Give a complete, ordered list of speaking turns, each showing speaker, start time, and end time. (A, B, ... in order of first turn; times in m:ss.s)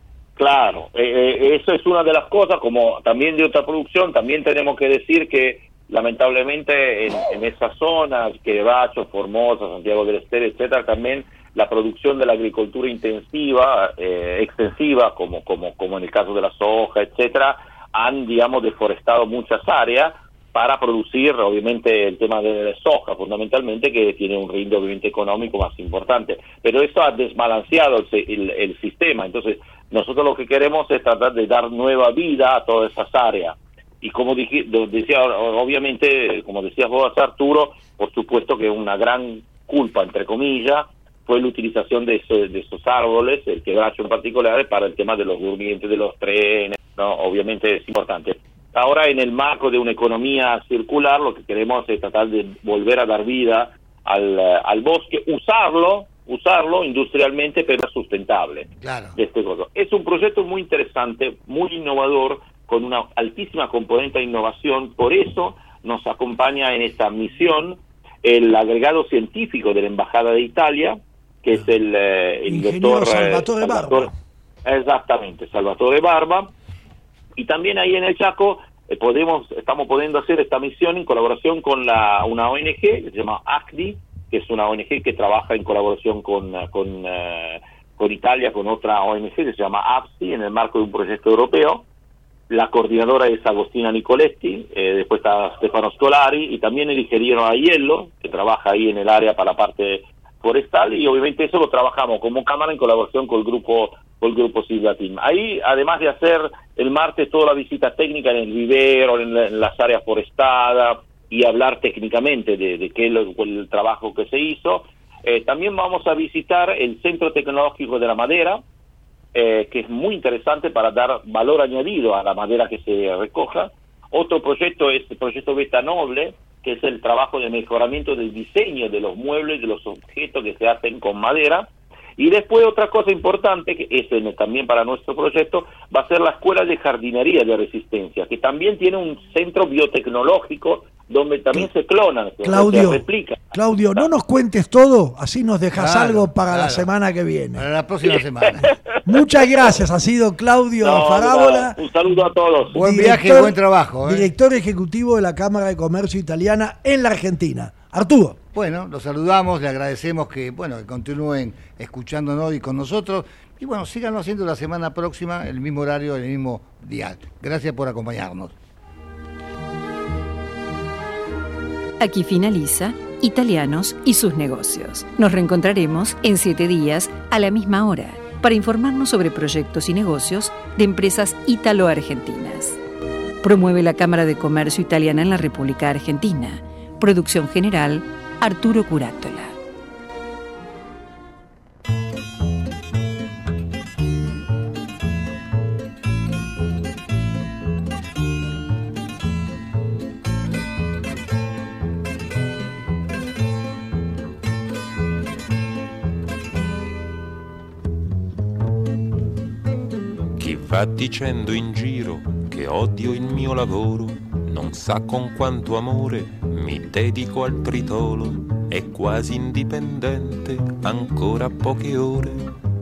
0:00.4-1:14.1 A
0:58.8-0:59.2 B
1:12.5-1:14.1 C
1:14.6-1:16.5 A
1:17.4-1:31.8 A
1:32.5-1:58.6 A
1:59.3-2:24.0 A
2:22.4-2:27.6 C
2:25.8-2:26.9 B
2:27.5-2:28.7 B
2:28.0-2:28.9 A
2:29.0-2:31.8 C
2:30.8-2:32.7 A
2:32.7-2:34.3 B
2:32.7-2:38.4 C
2:38.5-2:48.5 B
2:52.0-3:02.8 D
3:03.4-3:09.6 D
3:30.4-3:42.5 E